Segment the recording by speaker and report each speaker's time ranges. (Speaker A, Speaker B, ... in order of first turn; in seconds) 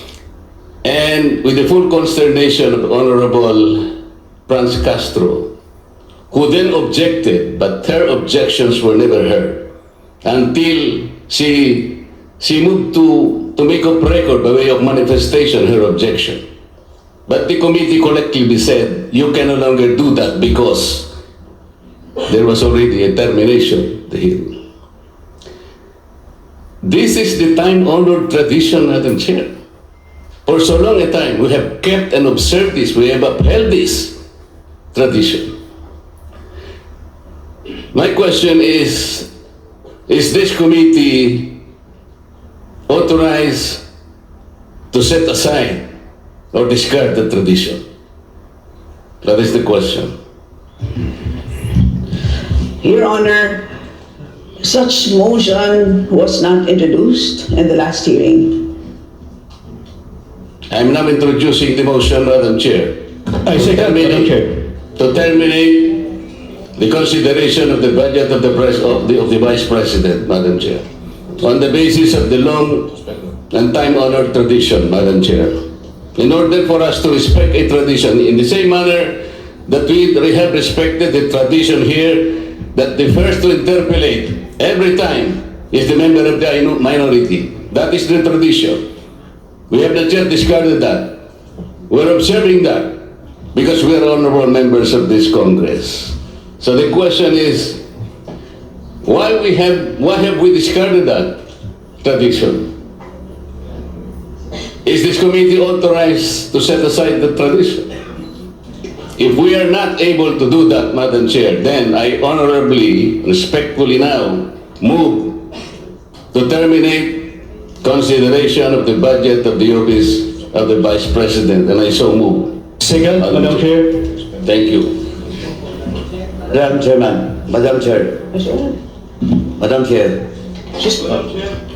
Speaker A: 0.8-3.9, 4.5-5.5, 6.3-9.7, 10.2-16.4, 17.3-21.1, 22.3-24.6, 26.8-29.5, 30.5-34.1, 34.9-35.5, 37.9-39.3, 40.1-41.6, 42.9-43.8, 44.9-45.9, 46.5-47.8, 49.2-50.1, 60.7-66.0, 66.8-70.8, 71.4-72.9, 73.5-75.6, 76.2-88.8, 89.7-91.2, 91.9-97.8, 99.0-101.4, 102.0-102.7, 104.8-107.9, 109.2-115.5, 116.3-122.6, 123.2-123.7, 124.4-125.0
Speaker B: 52.8-53.7, 54.6-58.7, 128.3-128.8, 130.8-131.3
Speaker C: 63.4-64.6, 122.8-124.1
Speaker D: 126.5-128.3, 129.6-130.3